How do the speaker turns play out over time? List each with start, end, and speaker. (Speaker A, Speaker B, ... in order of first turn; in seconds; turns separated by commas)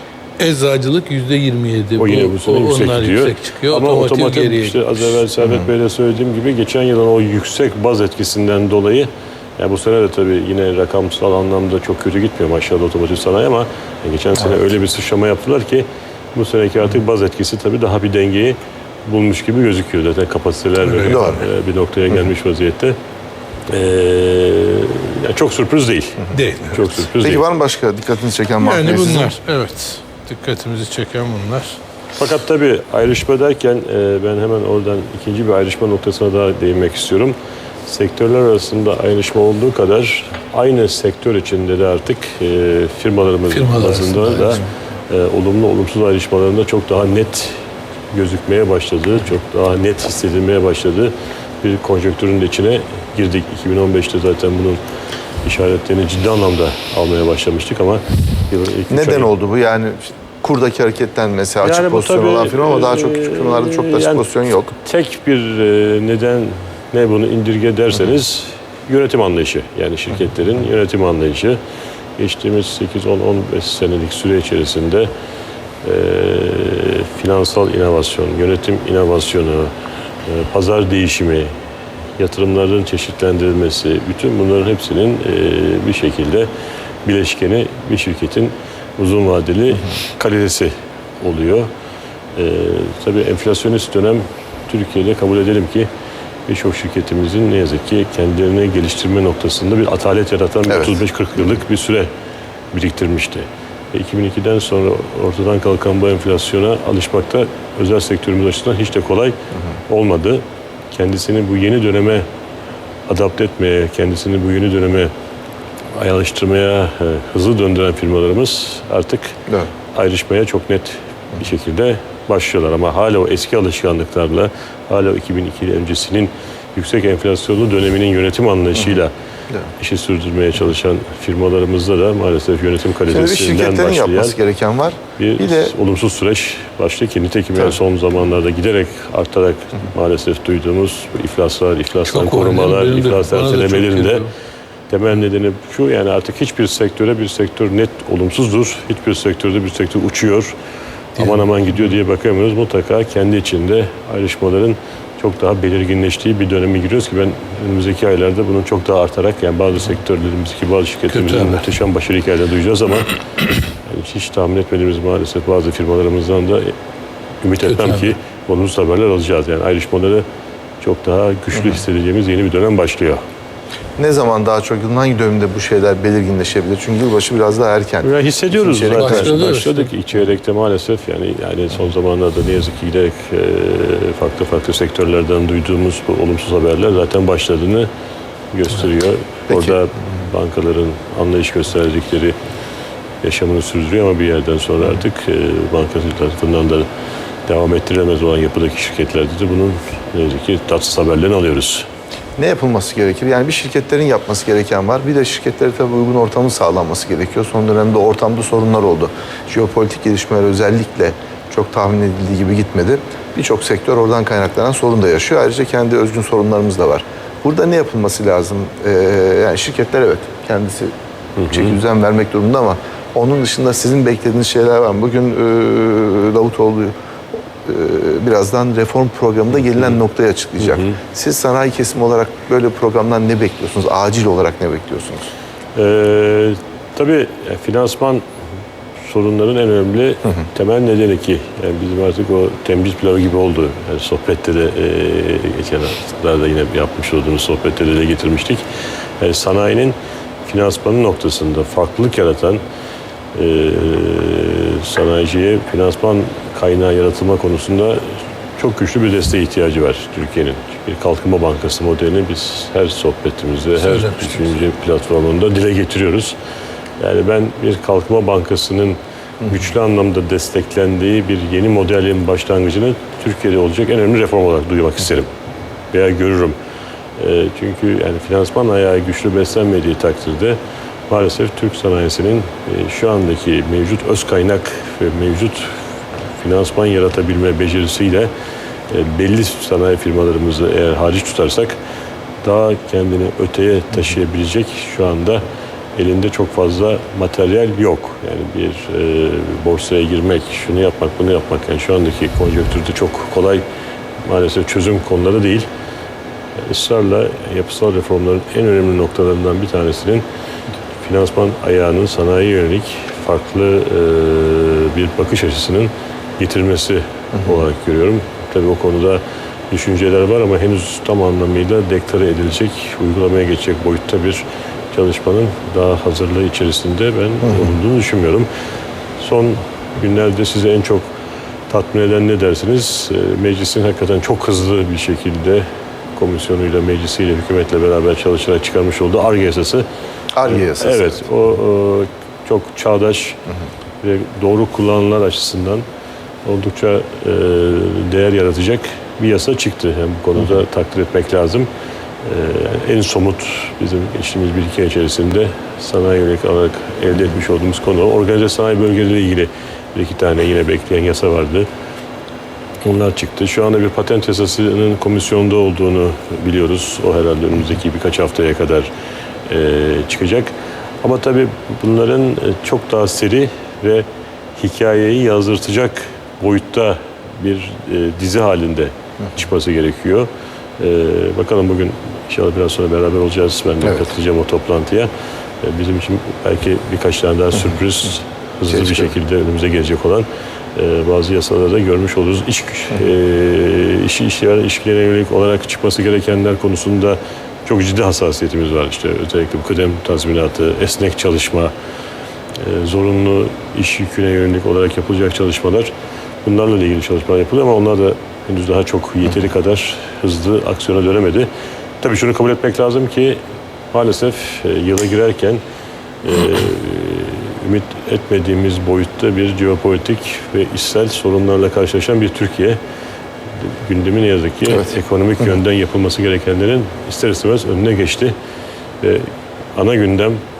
Speaker A: 0.4-4.8, Speaker B: 2.0-23.0, Speaker A: 20.8-21.3, Speaker C: 21.0-21.4, Speaker B: 23.7-27.4, Speaker A: 26.3-26.9, Speaker C: 27.2-29.4, Speaker A: 28.6-31.8, Speaker B: 32.1-47.6, Speaker A: 43.5-44.6, Speaker B: 48.1-54.8, Speaker B: 55.4-59.3, Speaker C: 58.9-64.7, Speaker B: 61.6-71.6, Speaker B: 72.2-75.1, Speaker B: 75.8-79.7, Speaker B: 80.2-81.5, Speaker B: 82.2-86.5, Speaker B: 87.0-91.7, Speaker B: 92.3-95.9, Speaker B: 96.5-102.1, Speaker C: 100.7-101.0, Speaker B: 102.7-109.4, Speaker B: 109.9-112.2, Speaker B: 113.1-115.1, Speaker B: 115.9-119.4, Speaker B: 119.9-129.1, Speaker B: 129.8-134.4, Speaker C: 133.1-135.7, Speaker B: 135.2-144.2, Speaker A: 142.1-144.3, Speaker B: 144.9-150.5, Speaker B: 151.2-163.1, Speaker A: 161.1-161.6, Speaker B: 163.8-166.7, Speaker B: 167.4-170.2, Speaker A: 167.6-168.1, Speaker B: 170.8-173.2, Speaker C: 174.0-179.4, Speaker B: 178.0-187.9, Speaker A: 178.9-179.9, Speaker B: 188.5-192.3, Speaker B: 193.2-196.9, Speaker B: 197.4-201.8, Speaker C: 202.3-220.9, Speaker B: 221.3-221.7, Speaker C: 221.5-226.9, Speaker C: 227.6-235.3, Speaker B: 230.6-231.0, Speaker B: 235.7-238.2, Speaker B: 239.0-248.6, Speaker B: 249.2-252.6, Speaker B: 253.3-266.4, Speaker A: 263.8-264.4, Speaker B: 267.0-275.3, Speaker B: 275.9-276.6, Speaker B: 277.2-285.8, Speaker B: 286.4-288.3, Speaker B: 288.9-291.8, Speaker B: 292.4-295.4, Speaker B: 295.9-303.6, Speaker B: 304.2-305.7, Speaker B: 306.6-310.2, Speaker B: 311.0-328.5, Speaker B: 329.2-331.1, Speaker B: 331.7-339.8, Speaker C: 340.3-341.1, Speaker B: 340.4-343.4, Speaker B: 344.0-345.8, Speaker B: 346.4-351.7, Speaker B: 352.2-361.7, Speaker B: 362.8-368.9, Speaker B: 369.5-385.1, Speaker B: 385.6-401.7, Speaker C: 388.7-389.1, Speaker B: 402.6-405.9, Speaker B: 406.4-411.5, Speaker B: 412.0-415.6, Speaker B: 416.2-422.8, Speaker B: 423.5-428.3, Speaker B: 429.0-430.4